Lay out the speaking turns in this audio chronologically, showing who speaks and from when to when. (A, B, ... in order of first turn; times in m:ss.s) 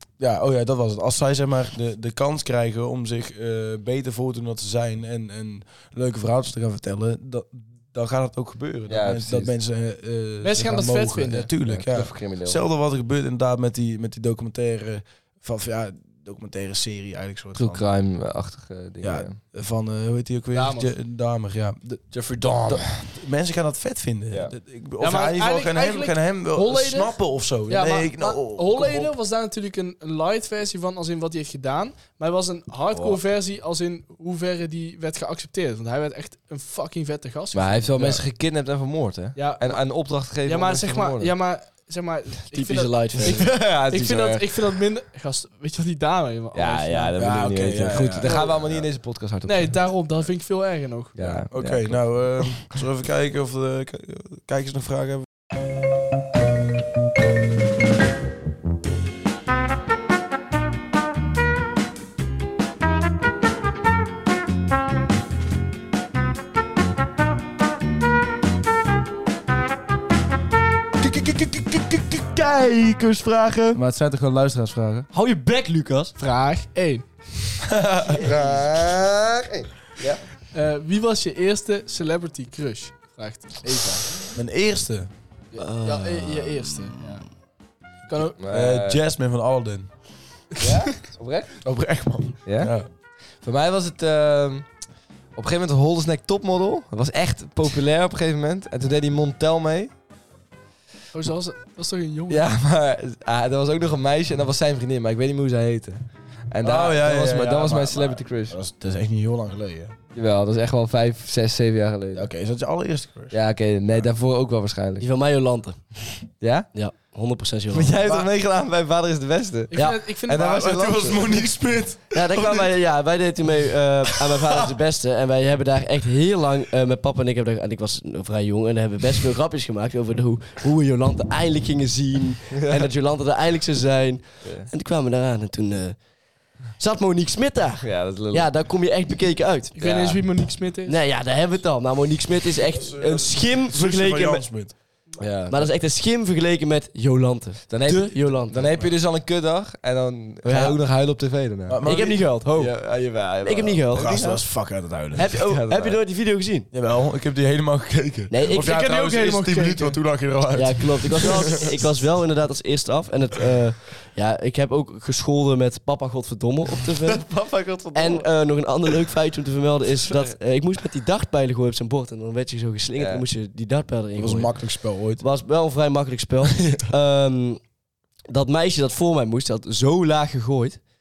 0:00.2-0:17.8 A
0:08.9-0:09.5 B
0:10.4-0:11.5 C
0:11.6-0:12.6 B
0:17.6-0:19.4 B
0:19.0-0:22.1 A
0:20.5-0:20.9 C
0:22.1-0:23.1 B
0:22.7-0:29.1 A
0:25.0-0:38.2 C
0:37.5-0:41.4 B
0:39.4-0:47.1 C
0:42.5-0:43.5 D
0:43.2-0:44.5 B
0:46.5-0:49.8 B
0:47.2-0:48.8 A
0:48.2-0:48.6 C
0:49.4-0:51.4 C
0:51.1-0:52.4 B
0:51.2-0:55.3 A
1:11.0-1:12.9 A
1:13.3-1:13.8 B
1:13.7-1:15.1 A
1:15.1-1:16.1 D
1:16.2-1:17.1 C
1:17.7-1:18.6 A
1:18.2-1:20.2 B
1:20.5-1:24.0 C
1:23.6-1:24.1 B
1:24.4-1:25.1 A
1:25.5-1:27.2 C
1:25.6-1:27.1 D
1:28.1-1:28.4 C
1:28.4-1:29.0 B
1:28.5-1:29.9 A
1:30.6-1:31.6 B
1:31.6-1:32.9 A
1:32.4-1:32.7 B
1:33.4-1:34.7 B
1:35.4-1:39.9 B
1:41.1-1:42.5 C
1:42.3-1:48.6 B
1:46.6-1:50.0 A
1:50.1-1:52.3 B
1:52.1-1:53.4 A
1:53.3-1:55.1 B
1:55.0-1:56.0 D
1:56.4-1:56.7 B
1:56.7-1:58.0 D
1:57.7-2:01.3 B
1:58.0-1:58.3 A
1:59.7-2:00.7 C
2:00.3-2:02.7 A
2:02.1-2:16.0 D
2:12.6-2:12.9 B
2:14.4-2:14.7 B
2:16.8-2:19.8 D
2:17.8-2:18.5 B
2:19.8-2:21.0 C
2:19.8-2:20.2 B
2:20.9-2:24.8 D
2:22.7-2:24.7 A
2:25.2-2:25.7 B
2:25.5-2:28.7 D
2:27.7-2:34.3 B
2:28.6-2:29.0 A
2:30.4-2:31.2 D
2:31.7-2:32.4 A
2:31.8-2:34.4 D
2:33.9-2:35.3 A
2:35.1-2:36.7 D
2:35.2-2:36.0 B
2:36.7-2:41.7 A
2:38.3-2:38.7 D
2:38.4-2:40.0 C
2:40.5-2:47.3 D
2:47.0-2:48.3 B
2:47.9-2:57.6 D
2:53.0-2:53.2 B
2:54.2-2:55.2 A
2:58.3-3:00.8 D